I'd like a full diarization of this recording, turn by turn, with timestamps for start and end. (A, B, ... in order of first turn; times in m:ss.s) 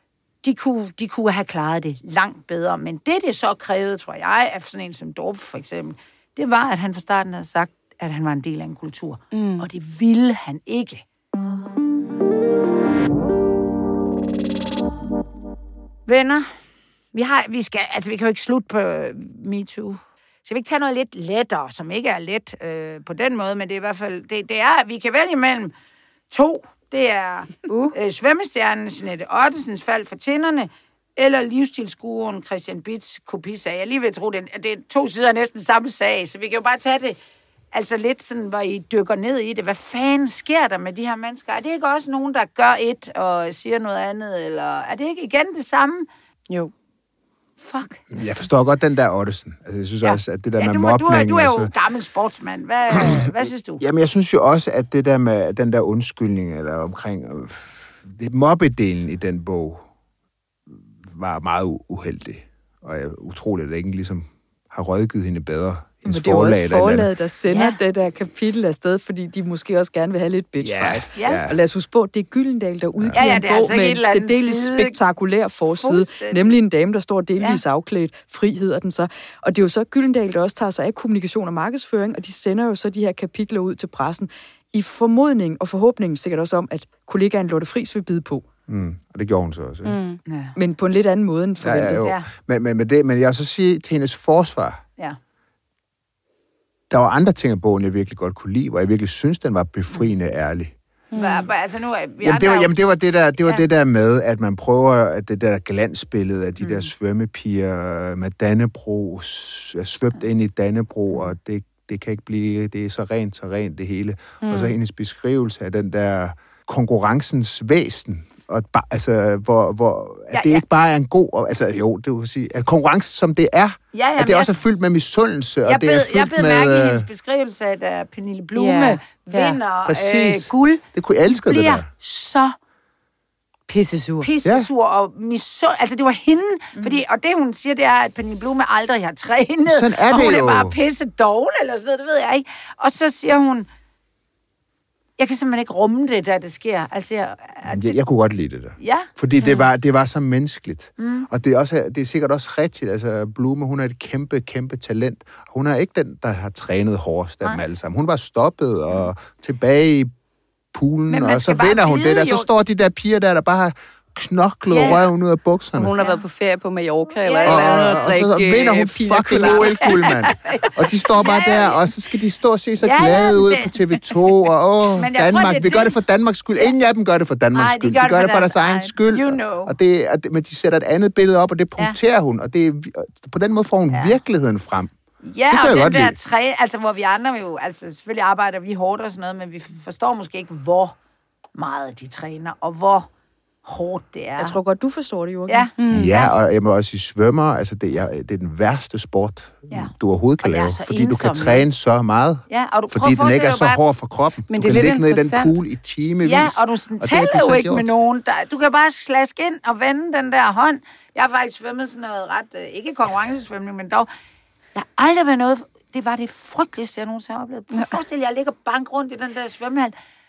0:00.4-0:11.0 A
0:09.3-0:09.7 B
0:16.0-0:16.5 A
0:17.1-0:25.7 A
0:26.3-0:37.2 A
0:27.7-0:27.9 B
0:37.7-0:46.1 A
0:47.6-0:48.0 A
0:48.1-0:51.7 C
0:50.0-0:53.8 A
0:52.9-0:59.8 C
1:00.7-1:07.1 C
1:06.0-1:28.5 D
1:07.5-1:07.8 A
1:10.6-1:11.6 C
1:11.1-1:11.4 A
1:13.0-1:13.4 C
1:13.1-1:15.0 A
1:15.7-1:16.5 A
1:28.7-1:30.0 C
1:29.8-1:30.2 B
1:30.2-1:30.5 A
1:30.5-1:32.1 D
1:31.6-1:34.8 C
1:32.0-1:32.3 A
1:36.9-1:40.7 C
1:41.1-1:41.4 B
1:41.2-1:42.7 A
1:42.2-2:07.1 C
1:43.4-1:43.6 A
1:46.6-1:46.9 A
1:54.4-1:54.8 B
2:00.3-2:00.6 A
2:03.9-2:04.6 A
2:05.6-2:12.6 A
2:08.5-2:09.6 B
2:09.8-2:11.8 C
2:13.7-2:14.3 B
2:14.2-2:23.7 A
2:19.7-2:20.8 C
2:25.2-2:28.0 A
2:27.6-2:40.1 C
2:28.8-2:29.1 A
2:29.4-2:29.7 B
2:31.0-2:31.3 A
2:40.7-2:45.9 C
2:41.1-2:42.5 A
2:44.7-2:45.0 A
2:45.7-2:50.1 B
2:46.0-2:46.2 A
2:47.2-2:48.0 A
2:47.4-3:04.9 C
2:49.7-2:51.9 A
2:52.8-2:53.8 A
2:54.9-2:55.9 A
2:57.5-2:59.7 A
3:03.9-3:04.2 A
3:05.2-3:11.0 A
3:05.5-3:06.2 C
3:11.5-3:13.1 A
3:13.6-3:14.6 A
3:14.4-3:15.7 D
3:15.5-3:16.3 A
3:15.8-3:16.1 B
3:15.9-3:27.9 C
3:19.7-3:21.7 A
3:22.5-3:23.8 A
3:24.5-3:25.5 B
3:26.2-3:34.1 A
3:34.7-3:39.9 A